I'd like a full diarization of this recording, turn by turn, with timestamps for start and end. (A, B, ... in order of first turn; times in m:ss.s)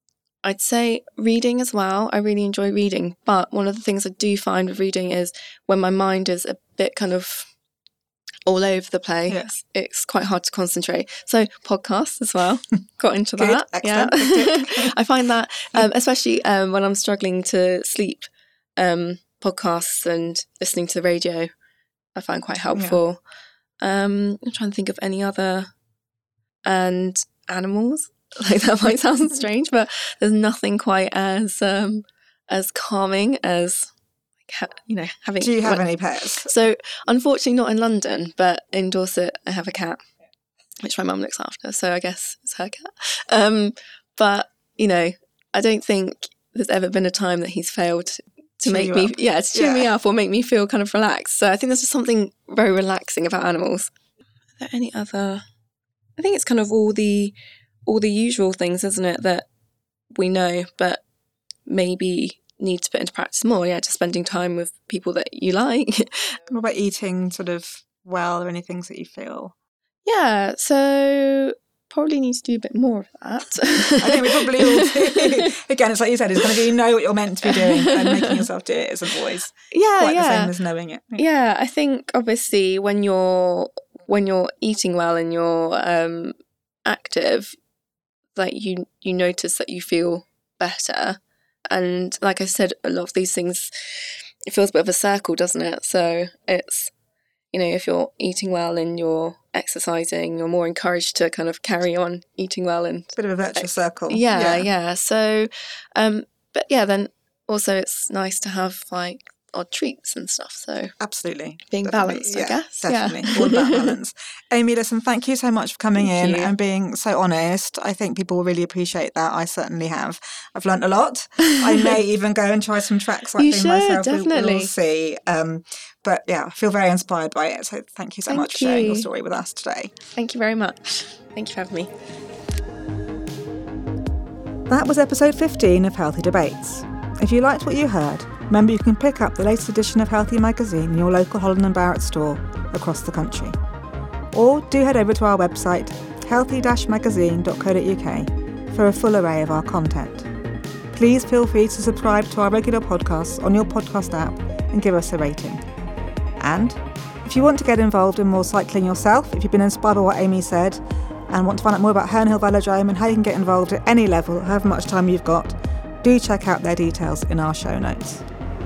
0:00.4-0:07.5 A
0:08.5-0:21.5 A
0:13.4-0:14.9 B
0:22.2-0:23.2 A
0:22.7-0:23.0 B
0:23.8-0:25.7 A
0:26.7-0:33.9 A
0:34.5-0:40.0 A
0:35.4-0:36.5 B
0:40.8-0:53.9 A
0:48.6-0:49.9 B
0:54.6-0:55.4 A
0:56.2-0:57.3 A
0:57.9-0:59.5 A
1:00.2-1:01.0 A
1:01.7-1:06.4 A
1:06.5-1:09.5 B
1:10.0-1:15.5 A
1:14.0-1:21.2 B
1:17.4-1:18.4 A
1:19.7-1:20.5 A
1:21.2-1:26.3 A
1:26.8-1:27.6 A
1:28.4-1:31.2 A
1:31.7-1:36.9 A
1:37.5-1:50.9 A
1:43.2-1:44.7 B
1:51.0-2:09.9 B
1:51.7-1:53.9 A
1:56.0-1:56.5 A
2:01.4-2:01.9 A
2:03.4-2:04.7 A
2:08.3-2:09.1 A
2:10.2-2:11.9 A
2:14.7-2:23.6 B
2:24.3-2:30.3 B
2:30.9-2:35.6 B
2:36.4-2:48.2 B